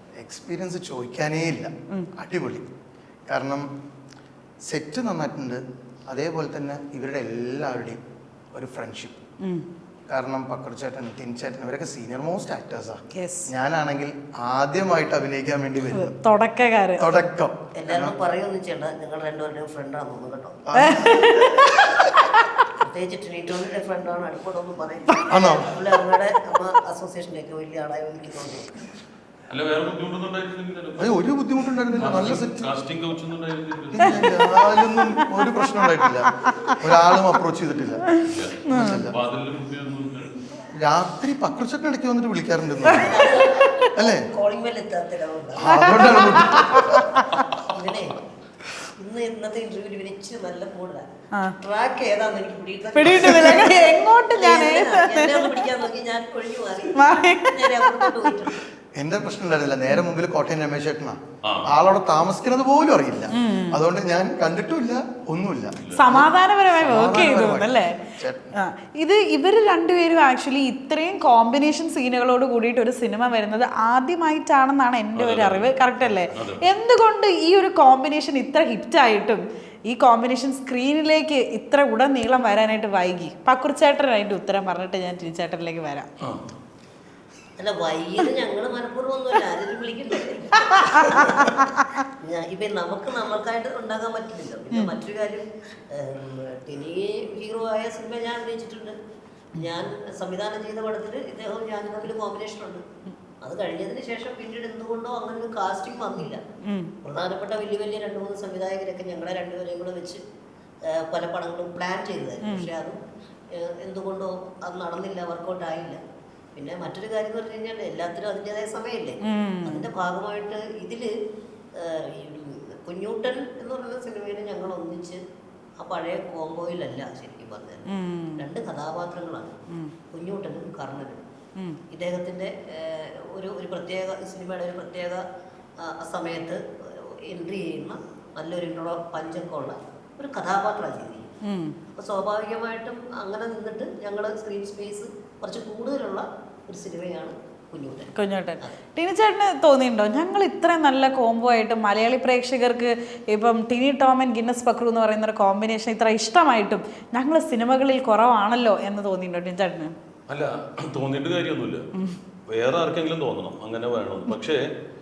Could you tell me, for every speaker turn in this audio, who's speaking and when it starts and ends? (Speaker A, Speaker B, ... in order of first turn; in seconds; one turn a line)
Speaker A: 0.2-2.6
Speaker A: 3.3-3.7
Speaker A: 4.7-8.0
Speaker A: 8.5-9.2
Speaker A: 10.1-16.1
Speaker B: 13.1-13.5
Speaker B: 15.9-17.2
Speaker A: 17.0-18.1
Speaker C: 17.8-20.6
Speaker A: 20.7-21.6
Speaker B: 20.8-22.4
Speaker C: 22.8-28.7
Speaker A: 25.3-25.7
Speaker D: 29.5-31.2
Speaker A: 31.0-32.6
Speaker D: 32.0-34.4
Speaker A: 34.0-38.0
Speaker B: 34.1-37.3
Speaker B: 38.1-39.1
Speaker D: 38.2-40.4
Speaker A: 38.7-39.1
Speaker A: 40.8-43.1
Speaker C: 42.9-46.3
Speaker B: 43.6-43.9
Speaker A: 44.0-44.2
Speaker A: 45.5-47.1
Speaker B: 45.7-47.5
Speaker C: 47.5-48.3
Speaker C: 49.0-51.1
Speaker C: 51.6-58.6
Speaker B: 53.0-55.7
Speaker B: 57.0-58.4
Speaker A: 59.0-68.5
Speaker D: 61.4-61.7
Speaker B: 63.3-63.8
Speaker D: 65.8-66.1
Speaker B: 65.9-86.1
Speaker D: 75.2-76.7
Speaker D: 86.2-86.5
Speaker C: 87.6-91.7
Speaker B: 90.8-91.9
Speaker C: 92.2-99.0
Speaker C: 99.6-102.8
Speaker C: 103.4-106.4
Speaker B: 106.6-106.9
Speaker C: 107.0-110.2
Speaker C: 110.9-113.0
Speaker B: 112.4-112.7
Speaker C: 113.5-116.0
Speaker C: 116.5-121.1
Speaker B: 119.2-119.8
Speaker C: 121.8-125.2
Speaker C: 125.8-127.9
Speaker B: 127.9-128.4
Speaker C: 128.4-129.6
Speaker C: 130.1-131.2
Speaker C: 131.9-135.2
Speaker C: 135.8-141.3
Speaker B: 141.4-141.8
Speaker C: 141.9-148.8
Speaker B: 148.2-159.9
Speaker D: 160.3-161.9
Speaker D: 162.5-164.6